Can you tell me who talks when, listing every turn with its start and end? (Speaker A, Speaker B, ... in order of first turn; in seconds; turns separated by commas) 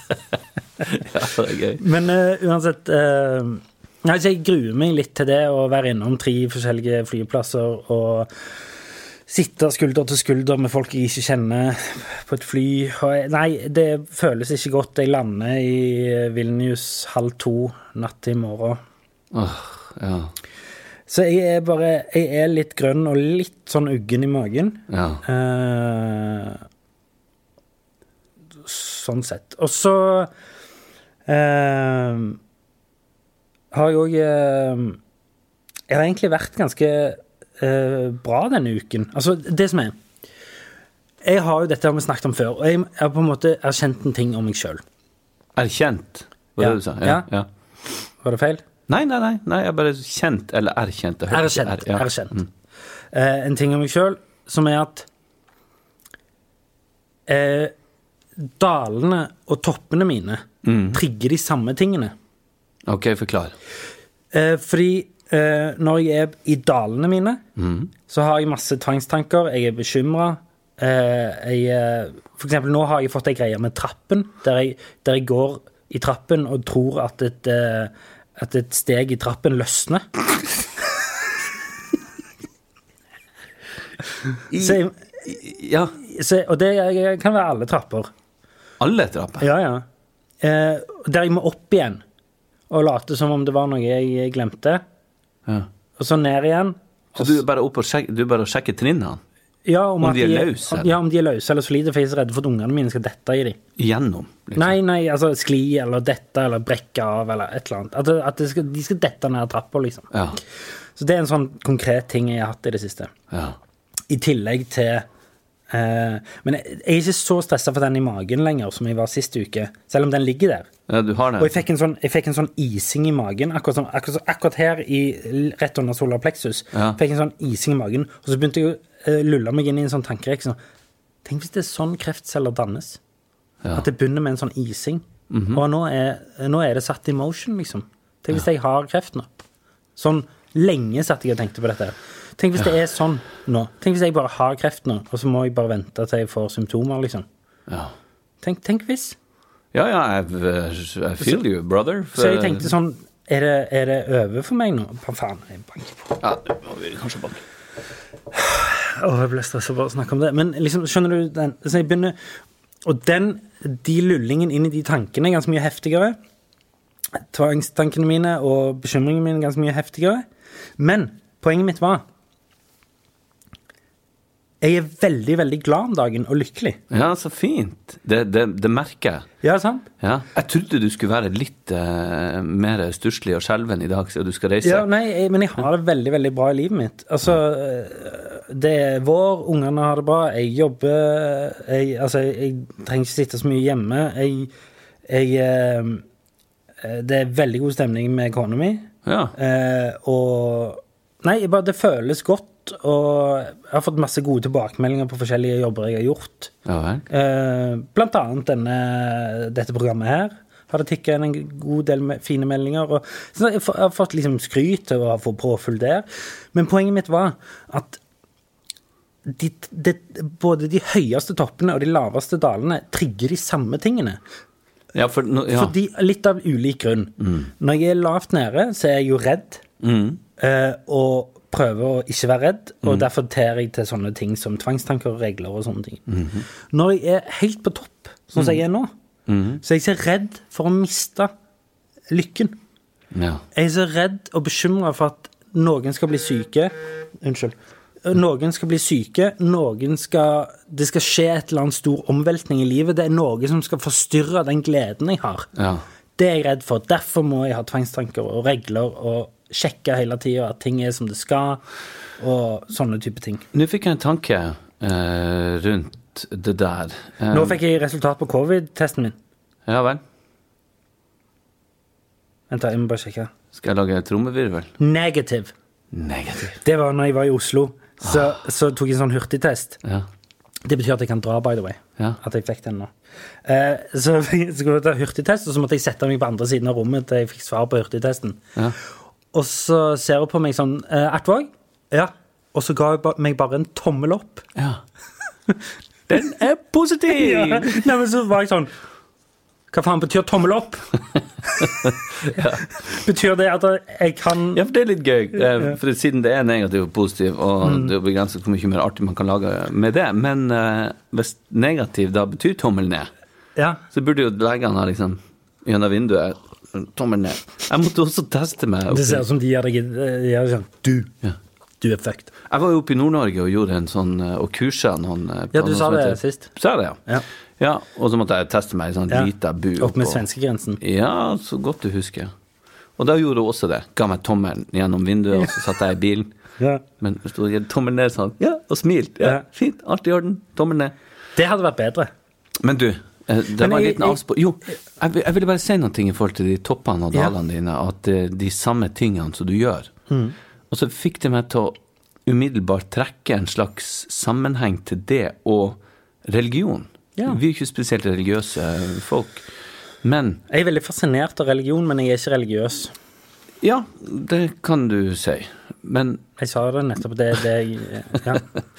Speaker A: 0.9-1.8, Speaker B: 1.8-8.3, Speaker B: 9.3-18.8, Speaker A: 19.3-20.3, Speaker B: 21.1-26.6, Speaker A: 24.9-25.2, Speaker B: 28.6-30.3, Speaker B: 31.3-32.4, Speaker B: 33.7-35.0, Speaker B: 35.9-40.0, Speaker B: 41.2-44.8, Speaker A: 45.5-47.5, Speaker B: 46.6-47.3, Speaker B: 48.2-48.6, Speaker A: 48.9-52.5, Speaker B: 51.3-52.4, Speaker B: 53.1-55.1, Speaker B: 57.3-57.7, Speaker B: 58.4-62.1, Speaker A: 60.6-61.0, Speaker A: 62.9-63.5, Speaker B: 64.3-67.4, Speaker A: 67.6-67.9, Speaker B: 68.1-80.0, Speaker A: 84.5-85.9, Speaker B: 84.5-85.3, Speaker B: 85.9-88.1, Speaker A: 88.8-89.5, Speaker B: 89.4-89.8, Speaker B: 90.4-92.0, Speaker B: 92.7-94.8, Speaker B: 96.0-97.4, Speaker A: 97.2-99.2, Speaker B: 99.7-103.6, Speaker A: 100.0-100.9, Speaker A: 103.8-104.8, Speaker B: 104.5-110.1, Speaker A: 110.1-110.4, Speaker B: 111.0-113.1, Speaker A: 113.3-113.6, Speaker B: 114.1-115.0, Speaker B: 115.7-120.7, Speaker A: 120.9-121.6, Speaker B: 121.4-130.6, Speaker A: 126.7-127.0, Speaker B: 131.2-133.0, Speaker B: 133.7-139.3, Speaker A: 135.3-135.6, Speaker B: 140.0-147.2, Speaker A: 147.7-147.9, Speaker B: 148.4-149.2, Speaker A: 149.7-152.7, Speaker B: 152.1-156.1, Speaker A: 156.2-157.4, Speaker B: 158.3-162.2, Speaker B: 162.8-166.2, Speaker B: 167.3-170.2, Speaker B: 170.8-172.0, Speaker B: 174.6-176.8, Speaker A: 176.9-179.3, Speaker B: 179.4-179.8, Speaker A: 180.0-184.9, Speaker B: 184.6-194.5, Speaker B: 195.1-196.0, Speaker B: 196.8-206.5, Speaker A: 199.0-199.3, Speaker A: 206.7-207.1, Speaker B: 207.1-218.0, Speaker B: 219.2-224.2, Speaker A: 224.9-225.7, Speaker B: 225.5-229.6, Speaker A: 227.2-227.5, Speaker A: 229.8-230.2, Speaker B: 230.4-236.0, Speaker A: 236.1-236.4, Speaker B: 236.7-238.9, Speaker A: 239.3-239.6, Speaker B: 239.6-241.3, Speaker B: 242.1-242.6, Speaker A: 243.1-243.4, Speaker B: 243.5-255.5, Speaker A: 255.6-255.8, Speaker B: 256.2-261.6, Speaker B: 262.2-263.4, Speaker A: 263.5-267.6, Speaker B: 267.3-269.1, Speaker A: 269.6-270.0, Speaker B: 272.5-273.3, Speaker A: 273.5-274.7, Speaker B: 274.8-275.5, Speaker A: 275.9-276.6, Speaker B: 276.6-279.8, Speaker A: 278.0-278.3, Speaker B: 280.6-282.9, Speaker B: 283.4-288.4, Speaker B: 289.3-294.4, Speaker A: 294.6-294.8, Speaker A: 296.1-297.9, Speaker B: 297.1-298.7, Speaker B: 299.7-300.9, Speaker B: 301.4-301.8, Speaker A: 301.6-302.6, Speaker B: 302.4-304.6, Speaker A: 304.5-313.1, Speaker B: 307.6-307.9, Speaker B: 313.6-313.8, Speaker A: 313.9-319.2, Speaker B: 318.9-321.1, Speaker B: 321.8-322.3, Speaker A: 322.5-327.0, Speaker B: 325.5-326.5, Speaker A: 327.6-330.2, Speaker B: 329.1-330.8, Speaker A: 330.8-332.3, Speaker A: 333.0-336.3, Speaker A: 337.0-340.9, Speaker B: 341.4-342.1, Speaker A: 342.6-349.9, Speaker B: 343.6-344.2, Speaker B: 350.1-350.3, Speaker A: 350.7-359.5, Speaker A: 360.0-360.4, Speaker B: 360.5-362.9, Speaker A: 363.6-366.2, Speaker B: 366.4-368.4